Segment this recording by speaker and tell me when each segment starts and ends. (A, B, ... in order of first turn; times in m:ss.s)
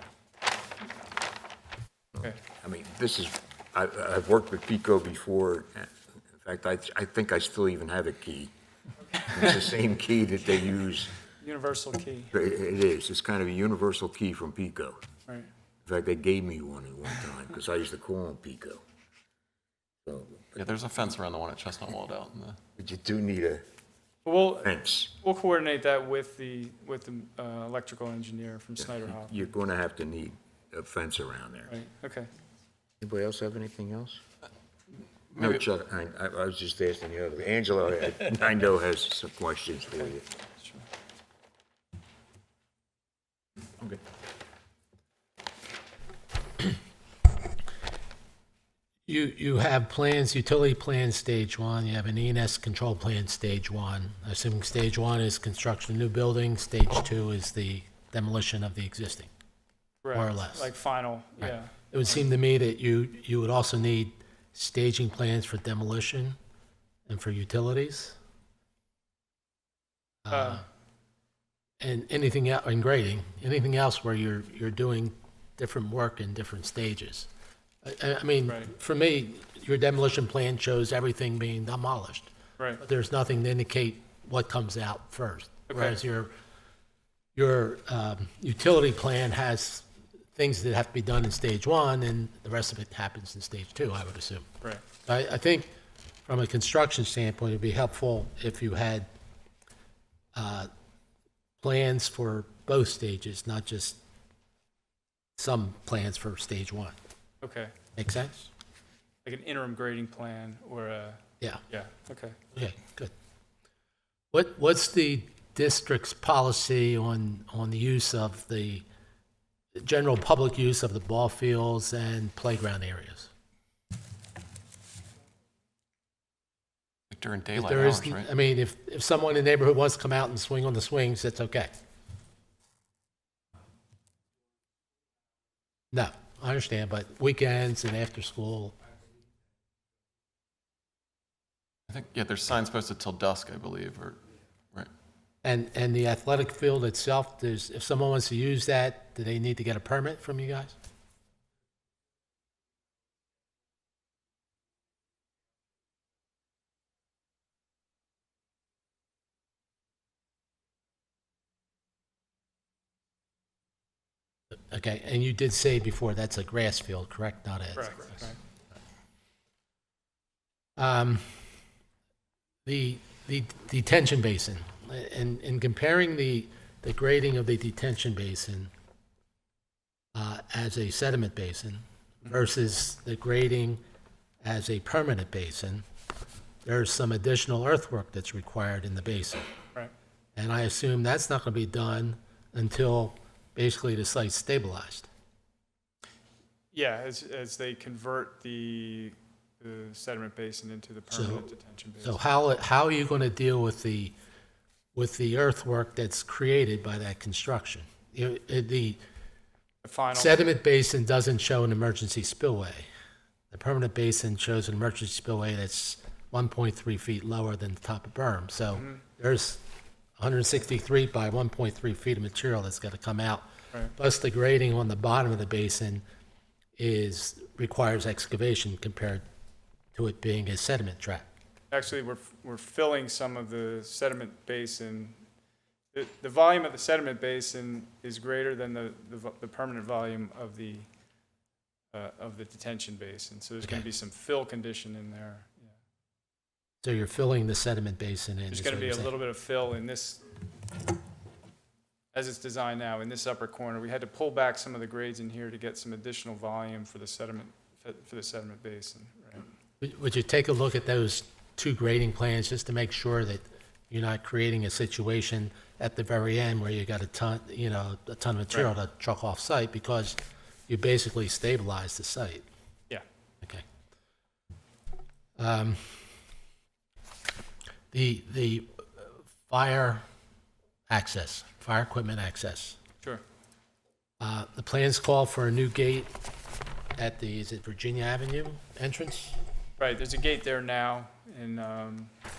0:02.2-0:08.5 A
0:09.2-0:11.1 A
0:11.4-0:12.3 B
0:12.3-0:15.0 A
0:15.8-0:18.8 A
0:20.0-0:20.7 A
0:20.6-0:22.5 B
0:20.6-0:22.6 C
0:22.8-0:23.6 A
0:24.3-0:24.6 B
0:24.6-0:25.2 A
0:25.2-0:29.2 B
0:28.8-0:31.7 A
0:31.7-0:32.3 B
0:33.0-0:34.2 A
0:35.3-0:40.3 A
0:49.1-0:59.3 D
1:00.1-1:01.7 B
1:00.1-1:00.7 D
1:01.4-1:06.4 D
1:07.1-1:08.2 D
1:10.2-1:10.7 D
1:11.8-1:17.3 D
1:17.8-1:26.3 D
1:27.4-1:34.5 D
1:35.0-1:35.7 D
1:36.3-1:39.1 D
1:40.4-1:40.7 D
1:41.6-1:44.0 D
1:45.4-1:47.0 D
1:47.4-1:47.7 B
1:48.0-1:48.5 D
1:49.2-1:51.2 B
1:51.7-1:52.3 B
1:52.5-1:53.1 D
1:54.3-1:58.8 D
1:59.8-2:03.3 D
2:07.1-2:08.3 C
2:07.4-2:07.8 B
2:07.6-2:11.7 D
2:15.9-2:18.8 D
2:21.9-2:24.2 C
2:25.4-2:30.7 D
2:44.7-2:48.3 D
2:47.8-2:48.4 B
2:50.8-2:51.4 D
2:52.7-2:58.7 D
3:00.2-3:03.8 D
3:04.4-3:05.8 D
3:06.6-3:09.5 D
3:10.4-3:15.1 D
3:16.7-3:19.1 B
3:19.6-3:22.1 B
3:21.1-3:21.5 D
3:22.0-3:24.1 D
3:25.0-3:29.0 D
3:29.9-3:30.3 B
3:30.1-3:32.9 D
3:33.5-3:39.6 D
3:40.2-3:46.0 D
3:46.8-3:49.2 D
3:49.9-3:51.3 D
3:51.7-3:55.1 B
3:55.9-4:00.8 B
4:02.0-4:05.5 B
4:06.8-4:09.1 D
4:08.6-4:10.2 B
4:12.1-4:19.1 B
4:19.8-4:32.4 D
4:35.4-4:36.0 D
4:37.9-4:40.0 D
4:40.9-4:42.8 D
4:44.2-4:46.1 D
4:47.0-4:49.4 D
4:49.8-4:52.1 B